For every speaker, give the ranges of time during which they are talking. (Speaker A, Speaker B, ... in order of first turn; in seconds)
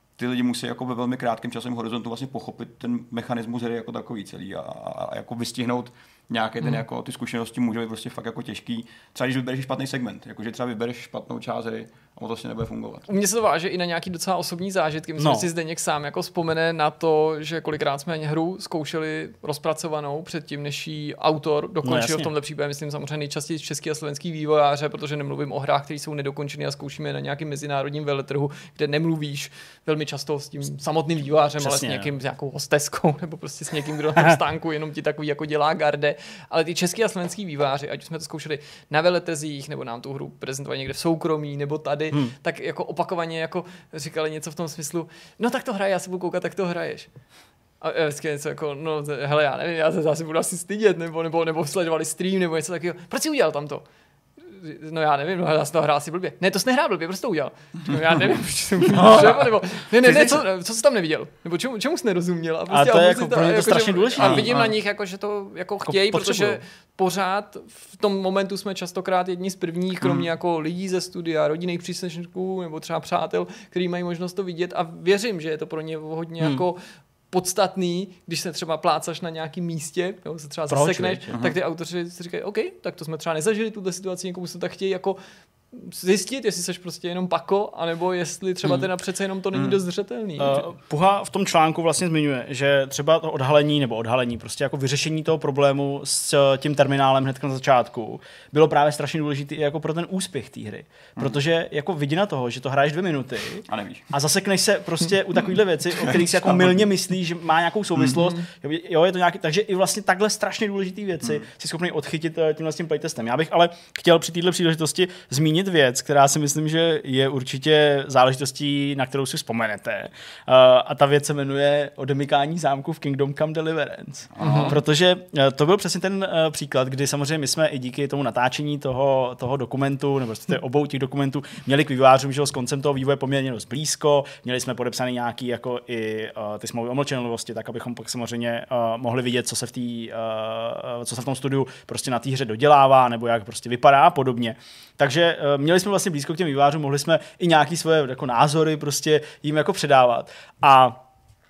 Speaker A: 0.2-13.1, 60.0-60.3, 64.2-64.7, 70.0-70.3, 89.5-89.8, 103.7-104.1, 106.1-106.8, 124.3-124.8
Speaker B: 13.1-47.1, 47.8-53.8, 54.4-76.8, 77.3-85.2, 85.7-90.6, 124.4-124.8
Speaker C: 15.2-15.5, 21.8-22.3, 31.6-32.1, 58.9-59.4, 62.7-64.6, 65.8-66.6, 80.7-81.3, 90.4-151.0